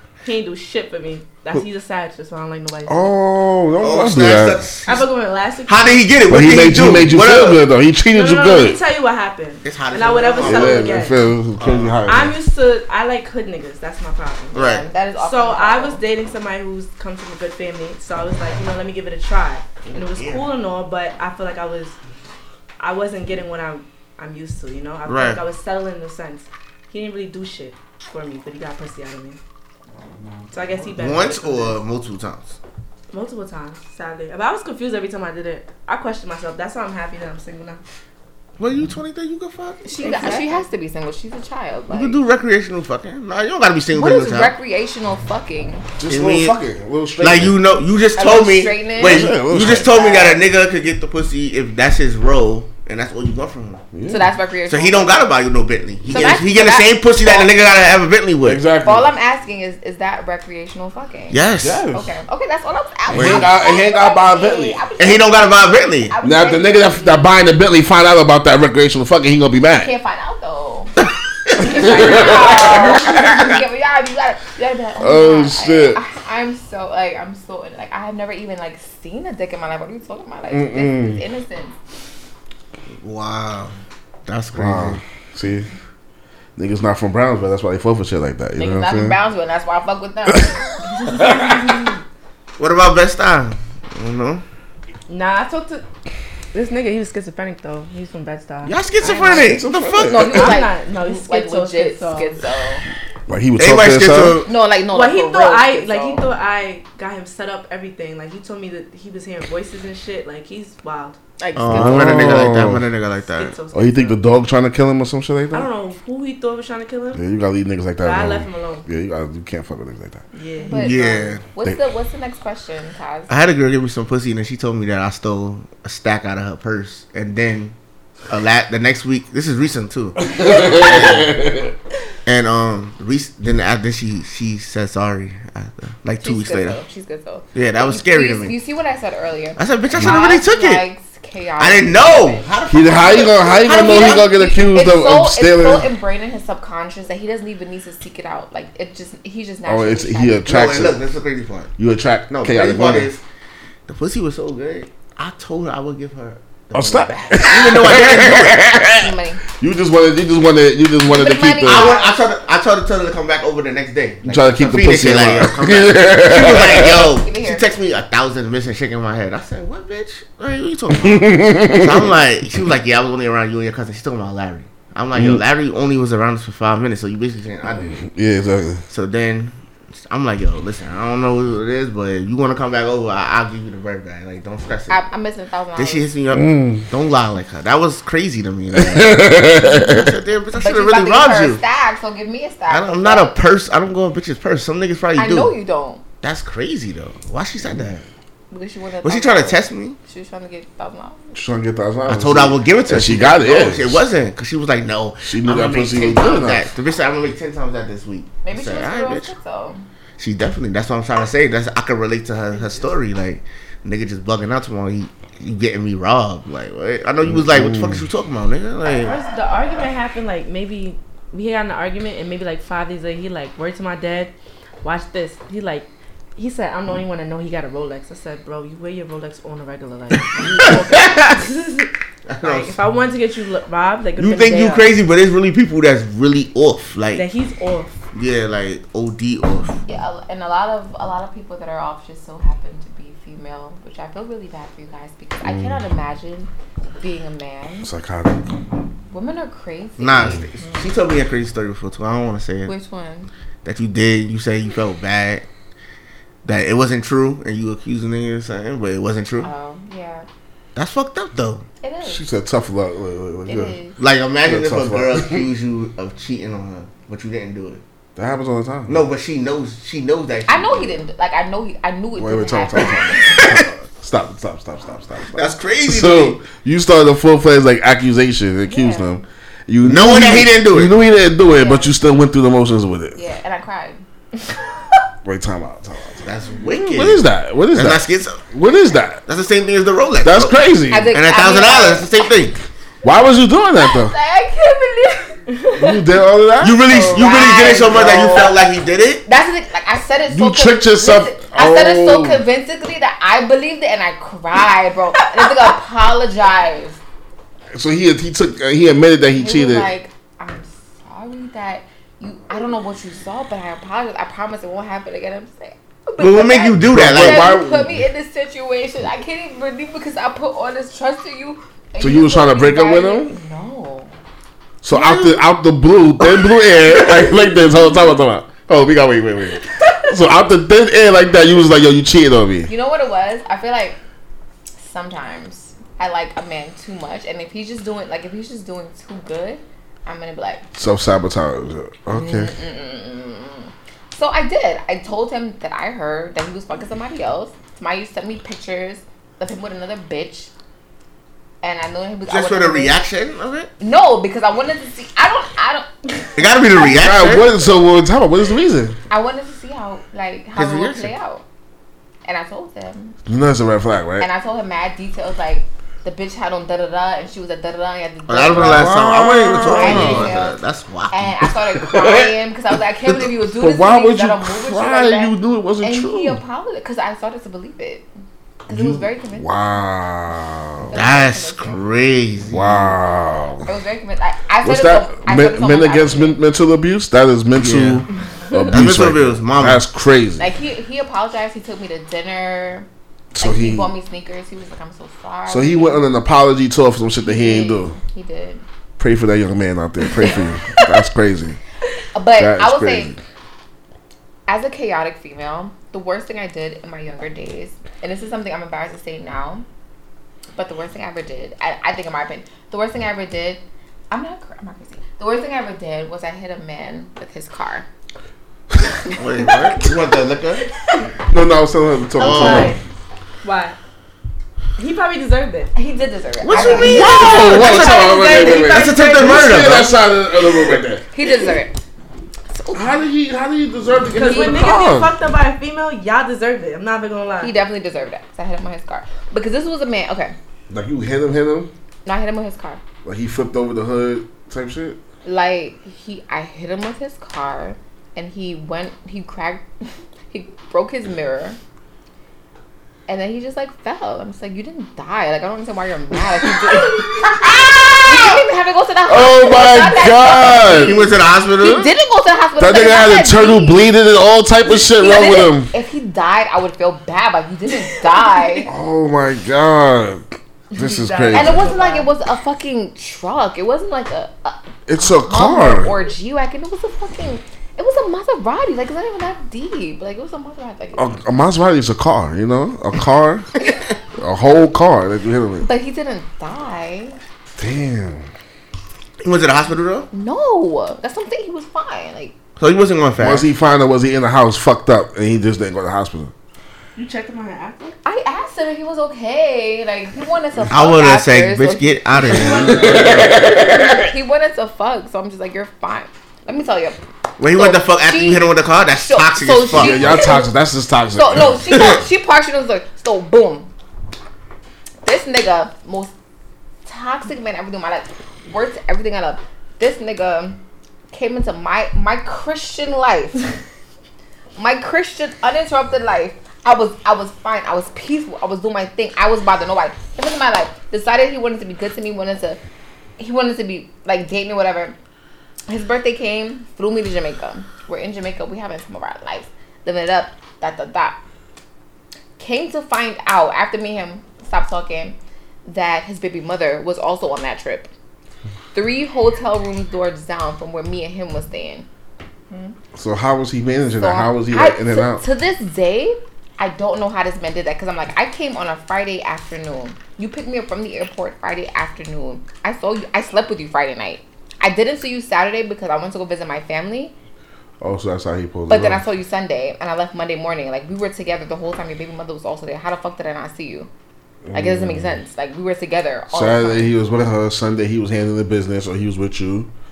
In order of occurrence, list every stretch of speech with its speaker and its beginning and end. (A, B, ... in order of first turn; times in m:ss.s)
0:00.2-0:03.1 A
0:02.9-0:04.6 B
0:03.8-0:05.1 C
0:04.9-0:06.0 A
0:05.7-0:07.6 C
0:06.3-0:08.8 B
0:08.1-0:11.2 A
0:09.6-0:12.0 C
0:10.4-0:12.4 B
0:12.1-0:22.0 A
0:14.5-0:14.8 C
0:14.6-0:16.0 D
0:19.9-0:20.4 C
0:22.8-0:29.4 A
0:25.1-0:25.4 C
0:30.5-0:31.8 A
0:31.0-0:32.6 C
0:33.1-0:37.8 A
0:38.6-0:40.5 C
0:39.8-0:42.2 D
0:40.0-0:40.5 A
0:41.9-0:44.5 C
0:43.9-0:45.9 D
0:46.0-0:47.6 B
0:46.1-0:46.6 C
0:47.2-0:53.8 C
0:48.2-0:50.4 D
0:49.0-0:49.9 B
0:53.9-0:54.3 B
0:54.1-0:55.3 D
0:54.7-0:58.6 C
0:56.1-0:57.5 D
0:58.4-0:59.1 B
0:58.8-1:07.3 D
1:01.3-1:01.8 C
1:01.6-1:02.1 B
1:03.1-1:04.8 B
1:03.1-1:03.5 C
1:05.0-1:06.1 C
1:06.2-1:09.9 B
1:09.8-1:11.0 D
1:11.6-1:21.8 D
1:11.6-1:13.3 B
1:15.0-1:16.0 B
1:20.5-1:21.2 B
1:23.0-1:23.8 C
1:24.3-1:25.0 C
1:24.5-1:25.7 B
1:26.6-1:29.2 B
1:28.6-1:30.6 D
1:30.3-1:30.6 B
1:30.9-1:31.9 A
1:32.6-1:34.4 C
1:35.1-1:35.8 A
1:36.5-1:39.6 A
1:38.6-1:40.5 C
1:39.3-1:40.5 B
1:40.1-1:42.8 D
1:40.3-1:42.4 A
1:43.3-1:44.4 B
1:43.6-1:44.5 C
1:44.4-1:46.2 D
1:44.9-1:51.2 A
1:51.4-1:52.4 D
1:51.6-1:53.5 C
1:51.7-1:52.9 B
1:53.3-1:54.2 A
1:53.7-1:55.7 B
1:55.5-1:57.2 A
1:57.1-2:00.2 B
1:58.0-1:58.9 A
2:00.3-2:01.2 A
2:00.6-2:03.3 D
2:00.7-2:01.4 C
2:03.3-2:07.8 C
2:08.3-2:11.3 C
2:10.2-2:11.7 B
2:12.2-2:16.8 C
2:16.2-2:30.5 D
2:17.5-2:18.6 C
2:19.6-2:20.8 C
2:21.6-2:24.3 C
2:22.7-2:25.9 B
2:29.7-2:31.0 B
2:30.4-2:31.7 C
2:31.8-2:33.1 B
2:32.3-2:33.2 C
2:33.9-2:38.7 C
2:36.7-2:41.9 B
2:38.9-2:39.4 D
2:41.0-2:42.2 D
2:41.6-2:58.0 C
2:44.2-2:47.1 B
2:46.5-2:47.7 D
2:51.0-2:52.1 B
2:55.2-2:55.4 B
2:57.9-2:58.8 B
2:58.9-3:05.0 C
3:04.9-3:06.0 D
3:05.8-3:11.6 C
3:06.3-3:06.8 B
3:08.7-3:10.1 B
3:10.6-3:13.4 D
3:12.7-3:15.5 C
3:15.2-3:16.0 D
3:16.2-3:18.0 C
3:18.5-3:21.3 D
3:19.0-3:20.0 C
3:21.3-3:24.0 B
3:22.1-3:29.3 C
3:25.2-3:26.7 B
3:28.4-3:29.8 D
3:30.2-3:39.2 C
3:37.3-3:38.0 B
3:38.9-3:44.3 A
3:44.8-3:54.9 A
3:50.5-3:50.7 D
3:52.3-3:52.8 C
3:54.2-3:57.3 C
3:57.2-3:58.0 A
3:58.1-3:59.8 C
3:59.9-4:07.9 D
4:05.4-4:05.8 B
4:07.8-4:08.4 B
4:09.1-4:10.4 D
4:10.0-4:12.7 C
4:12.7-4:13.3 D
4:13.6-4:15.5 C
4:16.4-4:19.5 C
4:19.4-4:20.3 D
4:20.8-4:21.6 C
4:21.8-4:22.2 D
4:22.0-4:23.8 B
4:23.5-4:24.0 D
4:24.0-4:27.8 C
4:24.4-4:25.5 B
4:28.2-4:29.1 B
4:28.9-4:31.0 C
4:30.5-4:33.6 D
4:32.2-4:43.2 B
4:35.4-4:36.4 C
4:38.7-4:39.2 D
4:39.8-4:40.9 C
4:41.5-4:42.0 D
4:43.2-4:45.0 D
4:45.2-4:49.2 B
4:46.2-4:48.4 C
4:49.3-4:50.6 C
4:50.2-4:51.1 B
4:50.9-4:52.1 D
4:51.1-4:52.6 C
4:53.0-4:54.2 B
4:53.8-4:55.4 D
4:55.5-4:56.0 A
4:55.7-4:56.9 B
4:56.6-4:59.2 C
4:56.8-4:58.5 D
4:57.7-4:58.5 B
4:59.3-5:07.0 D
5:00.3-5:02.4 B
5:07.7-5:09.9 B
5:09.4-5:24.1 D
5:16.2-5:17.6 C
5:16.8-5:18.0 B
5:22.0-5:23.4 B
5:24.8-5:32.7 B
5:24.9-5:25.4 C
5:32.7-5:34.0 D
5:34.8-5:40.6 D
5:40.8-5:42.5 B
5:42.1-5:50.5 D
5:51.6-5:53.0 D
5:52.3-5:53.7 C
5:53.8-5:57.8 D
5:56.4-5:57.5 C
5:56.8-5:59.0 B
5:59.1-6:01.4 D
6:00.6-6:01.1 C
6:02.2-6:03.2 D
6:03.3-6:04.3 B
6:04.2-6:08.9 D
6:08.3-6:11.4 C
6:08.5-6:10.4 B
6:09.6-6:10.6 D
6:11.1-6:18.1 D
6:11.8-6:12.3 B
6:13.1-6:16.4 B
6:18.7-6:19.5 D
6:18.7-6:21.0 B
6:20.8-6:21.8 D
6:20.9-6:22.9 C
6:22.5-6:23.7 B
6:23.6-6:26.4 D
6:24.6-6:30.5 B
6:27.6-6:28.1 C
6:28.7-6:29.8 C
6:30.4-6:32.9 D
6:33.3-6:33.9 B
6:33.4-6:36.0 D
6:35.5-6:38.0 B
6:37.2-6:38.6 D
6:39.0-6:41.6 B
6:42.1-6:43.1 D
6:42.4-6:43.2 B
6:44.5-6:49.6 D
6:50.6-6:57.9 D
6:59.1-7:00.7 C
7:00.8-7:01.1 A
7:01.3-7:02.8 B
7:02.2-7:02.8 A
7:02.2-7:02.8 C
7:03.4-7:03.8 A
7:04.8-7:05.7 A
7:05.8-7:07.4 D
7:06.4-7:10.0 C
7:06.6-7:09.7 A
7:06.6-7:11.0 B
7:11.1-7:11.8 D
7:12.5-7:13.0 D
7:12.7-7:15.1 B
7:14.1-7:17.5 A
7:14.2-7:14.7 D
7:17.4-7:20.4 D
7:20.7-7:21.7 B
7:22.0-7:22.8 D
7:23.0-7:25.0 B
7:25.2-7:31.6 D
7:33.1-7:43.9 D
7:36.5-7:38.4 B
7:39.1-7:41.1 B
7:40.6-7:41.9 C
7:42.6-7:45.7 B
7:44.8-7:48.7 D
7:48.1-7:48.6 A
7:48.7-7:51.7 B
7:50.7-7:52.1 A
7:51.3-8:01.2 D
7:54.9-7:55.9 B
8:01.0-8:03.5 B
8:04.2-8:05.7 B
8:05.6-8:07.2 D
8:07.6-8:08.3 B
8:09.2-8:10.1 C
8:10.1-8:12.3 D
8:12.6-8:13.5 C
8:13.2-8:16.3 B
8:17.0-8:18.0 A
8:18.0-8:22.5 D
8:20.7-8:23.2 C
8:22.2-8:24.1 B
8:22.3-8:23.3 A
8:23.7-8:27.0 D
8:27.4-8:30.2 C
8:27.5-8:30.5 D
8:29.7-8:31.7 B
8:31.1-8:33.7 D
8:31.7-8:32.0 C
8:35.0-8:36.1 D
8:36.9-8:40.6 D
8:41.1-8:43.4 D
8:44.6-8:52.6 D
8:53.2-8:55.0 D
8:55.7-9:01.2 D
9:02.4-9:07.9 D
9:08.7-9:11.9 D
9:12.5-9:12.8 A
9:13.0-9:15.2 B
9:14.0-9:27.1 D
9:27.8-9:29.0 B
9:28.7-9:33.9 D
9:34.5-9:35.2 B
9:34.5-9:36.9 D
9:36.3-9:39.7 B